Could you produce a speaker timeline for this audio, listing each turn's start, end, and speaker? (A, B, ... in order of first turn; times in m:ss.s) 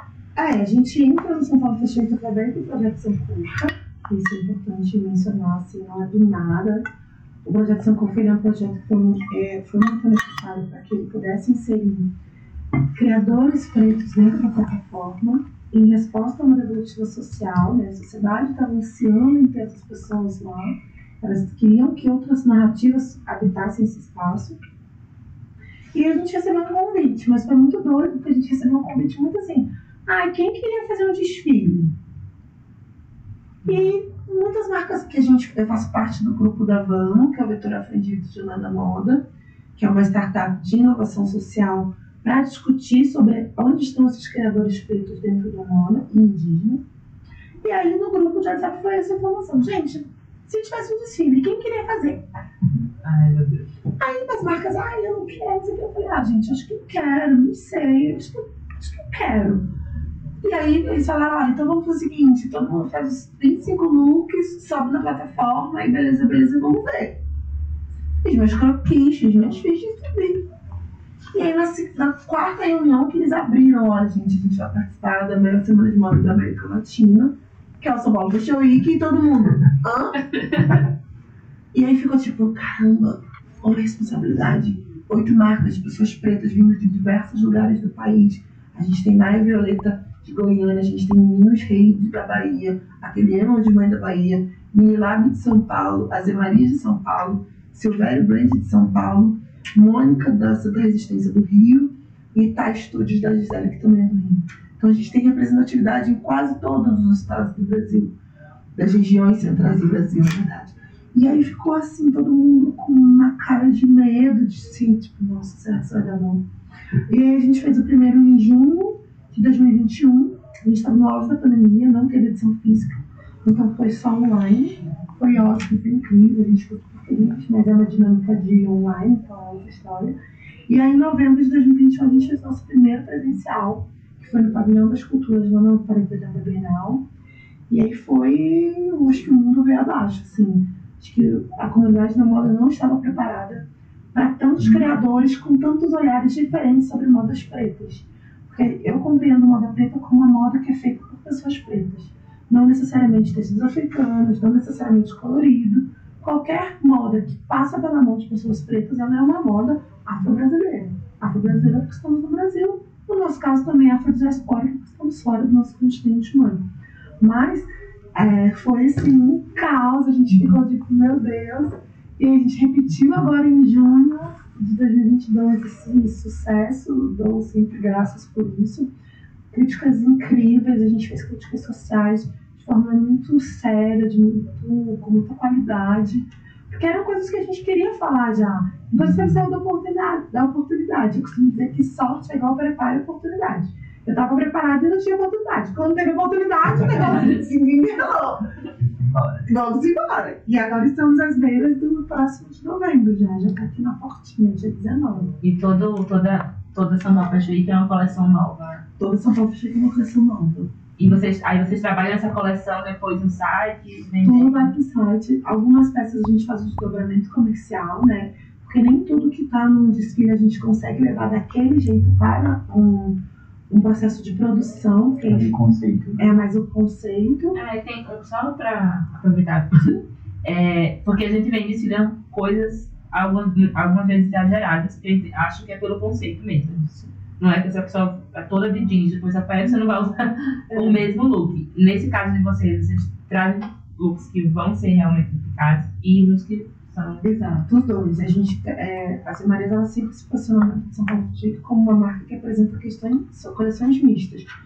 0:00.4-0:06.8 A
0:07.4-0:12.1 A
0:12.9-0:24.6 A
0:25.9-0:31.9 A
0:33.6-0:33.9 B
0:33.6-0:39.2 A
0:39.8-0:46.8 A
0:47.6-0:52.3 A
0:53.0-0:53.7 B
0:54.0-0:59.7 A
1:00.4-1:07.2 A
1:08.2-1:10.4 A
1:11.3-1:20.2 A
1:20.3-1:20.8 B
1:21.7-1:48.1 A
1:48.7-1:56.4 A
1:57.1-2:10.1 A
2:10.7-2:17.0 A
2:17.7-2:46.6 A
2:24.6-2:24.9 C
2:47.2-2:58.9 A
2:59.5-3:18.4 A
3:17.0-3:17.4 B
3:18.8-3:19.5 C
3:19.4-3:25.3 A
3:25.4-3:28.8 B
3:29.0-3:30.7 A
3:31.0-3:34.7 B
3:34.2-3:43.2 A
3:43.7-3:45.5 A
3:45.2-3:46.2 C
3:46.2-3:47.6 A
3:47.5-4:07.3 B
4:00.7-4:01.0 A
4:07.2-4:14.5 A